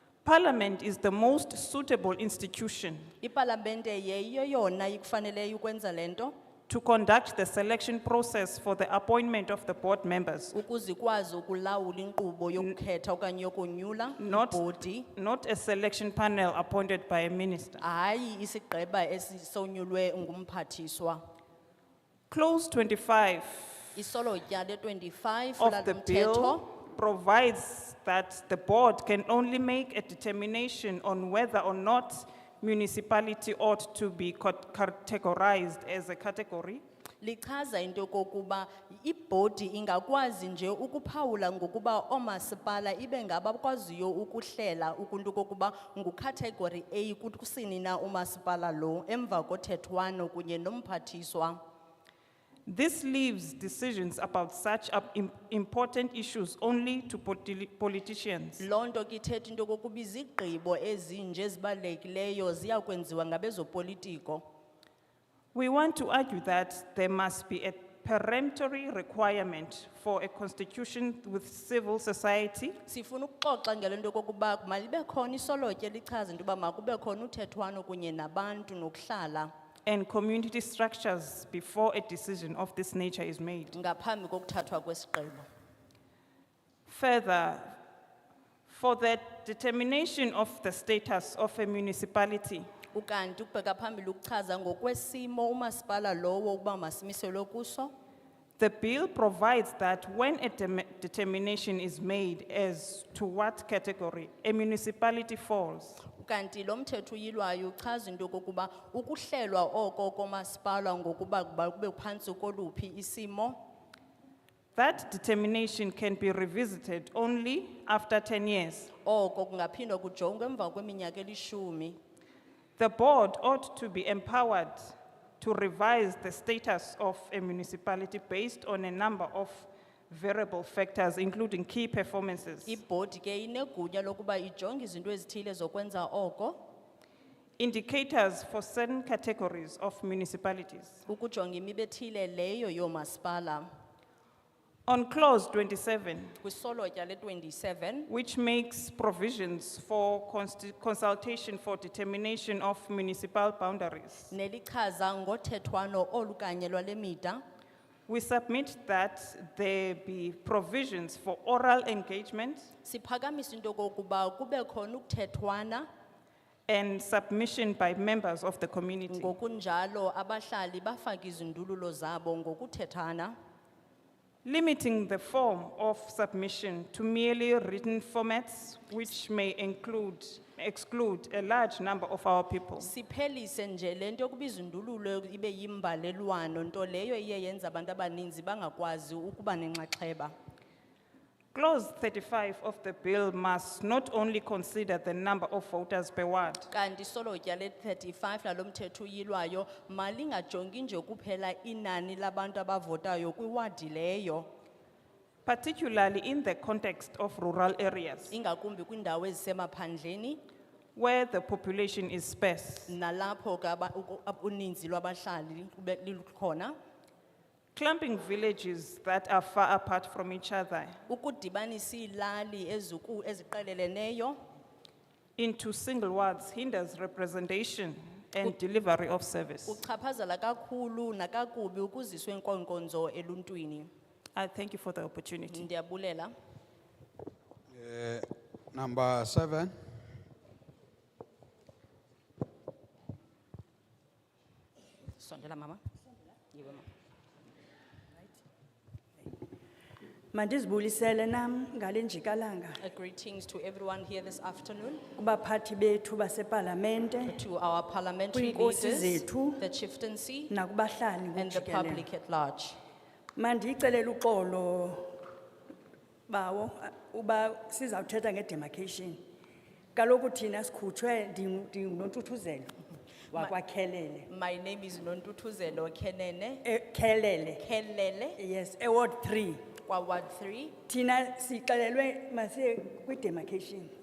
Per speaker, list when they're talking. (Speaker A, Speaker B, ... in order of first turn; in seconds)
Speaker A: 0.2-3.1, 6.7-10.6, 14.2-17.8, 22.3-24.0, 25.6-36.8, 52.7-58.6, 65.5-72.8, 79.9-83.8, 86.9-87.8, 88.7-92.7, 98.6-106.0, 114.8-118.9, 122.8-132.8, 137.6-141.1, 144.9-146.4, 148.1-154.3, 158.1-162.7, 166.7-169.3, 174.4-182.9, 191.5-196.7, 205.4-208.3, 211.0-212.9, 217.8-221.0, 225.4-229.8, 234.3-235.7
Speaker B: 3.2-6.3, 10.5-15.1, 17.8-21.2, 23.9-26.7, 37.2-51.6, 58.6-64.4, 72.9-79.5, 83.7-85.5, 92.9-97.9, 106.1-113.6, 119.0-122.0, 132.7-136.6, 141.1-143.7, 146.4-148.1, 154.3-157.4, 162.8-165.9, 169.1-173.3, 182.8-190.3, 196.7-204.5, 208.3-210.4, 212.9-216.7, 221.1-224.4, 229.7-233.9, 235.5-236.3, 245.2-245.8, 246.5-246.8, 252.8-255.1, 257.2-260.5, 261.4-262.8, 274.3-276.6, 277.6-278.4, 279.9-280.8
Speaker C: 237.7-239.8
Speaker D: 250.3-252.8, 255.2-257.4, 258.3-259.6, 260.5-262.1, 263.4-265.2, 266.3-269.2, 269.9-272.8, 273.3-274.3, 276.6-277.6, 278.4-279.6, 280.9-283.9